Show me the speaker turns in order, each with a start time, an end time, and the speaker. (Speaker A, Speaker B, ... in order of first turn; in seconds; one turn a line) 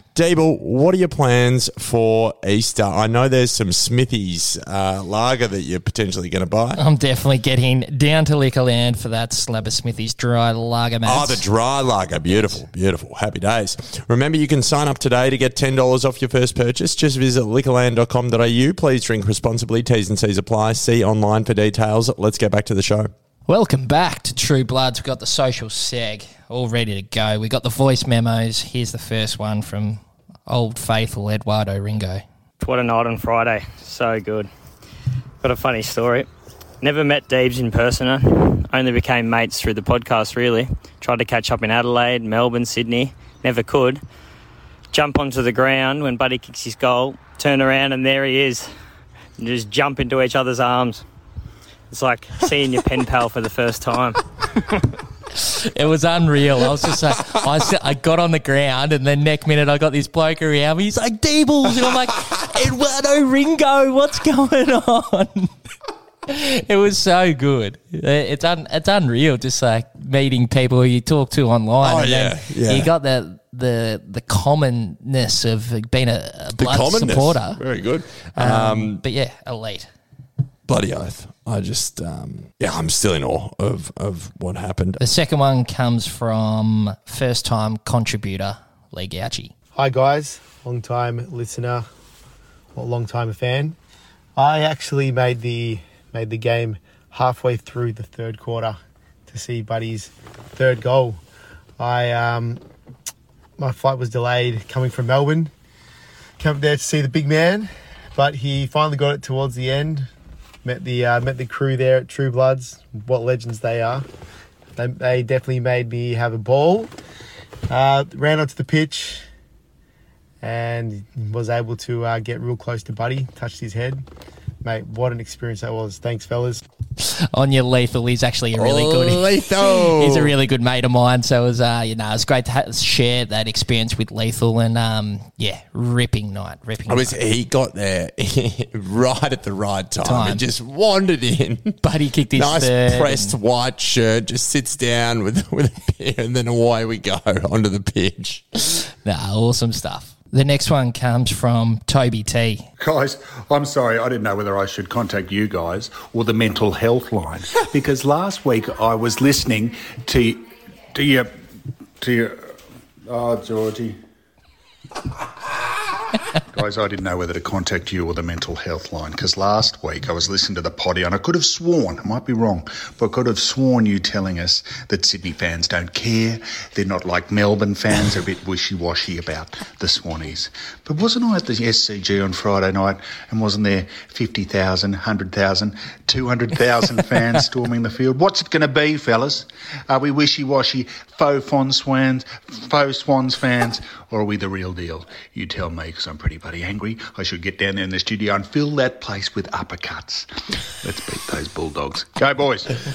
Speaker A: 0.1-6.8
Speaker B: 6.8-11.4
Speaker A: 11.0-23.1
Speaker B: 12.3-12.6
Speaker B: 23.5-32.2
Speaker C: 32.6-34.5
Speaker C: 35.4-36.3
Speaker C: 36.8-44.0
Speaker C: 44.9-48.7
Speaker C: 49.4-51.0
Speaker C: 51.9-54.2
Speaker B: 55.4-65.5
Speaker B: 66.3-77.6
Speaker A: 71.8-72.9
Speaker A: 76.5-79.0
Speaker B: 78.3-79.9
Speaker A: 80.7-85.0
Speaker B: 85.0-89.5
Speaker D: 89.7-91.9
Speaker D: 92.7-93.8
Speaker D: 94.3-98.8
Speaker D: 99.3-101.2
Speaker D: 101.8-102.6
Speaker D: 103.6-105.5
Speaker D: 106.4-110.1
Speaker D: 110.6-114.0
Speaker D: 114.8-116.9
Speaker D: 117.7-119.2
Speaker D: 120.4-124.0
Speaker D: 124.6-126.6
Speaker B: 127.0-137.2
Speaker A: 128.6-130.3
Speaker A: 136.9-141.8
Speaker B: 140.0-140.4
Speaker B: 141.8-143.3
Speaker A: 142.3-148.7
Speaker B: 149.0-152.7
Speaker E: 152.8-161.3
Speaker E: 162.0-162.5
Speaker E: 163.0-164.0
Speaker E: 166.5-200.3
Speaker E: 200.8-202.8